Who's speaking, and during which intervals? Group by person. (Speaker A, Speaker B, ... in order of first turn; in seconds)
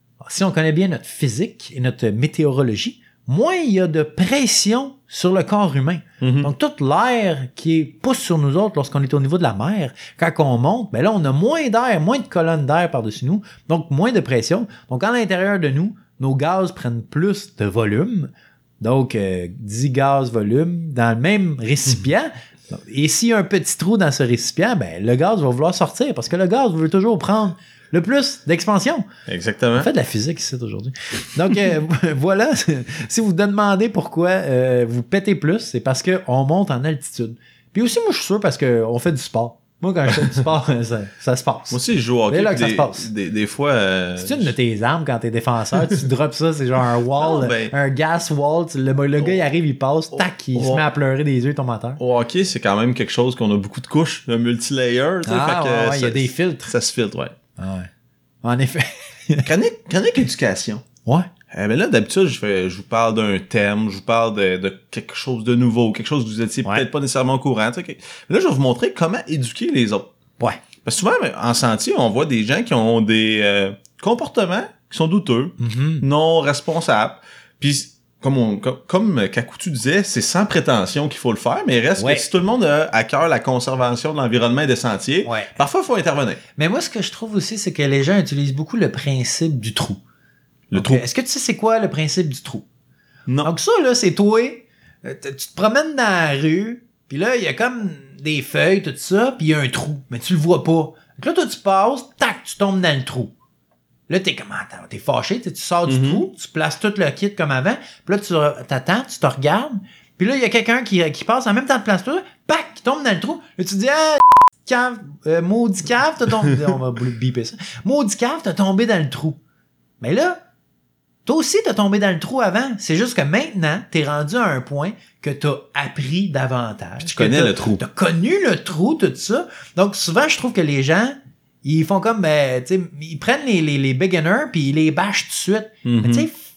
Speaker A: 0.2-29.1, 29.8-43.1, 44.2-52.0, 55.2-56.7, 57.6-57.9, 58.4-59.5, 75.6-76.1, 82.0-82.2, 85.2-85.5, 86.6-90.0, 90.7-92.7, 93.4-103.3, 104.1-119.4, 120.0-120.4, 121.2-136.4
Speaker B: 6.2-6.5, 29.3-29.9, 41.7-44.5, 47.2-47.8, 50.1-50.9, 52.0-57.4, 59.4-60.8, 61.5-70.1, 70.8-86.4, 90.7-91.0, 93.3-93.5, 105.9-106.2, 127.0-127.8, 135.8-136.3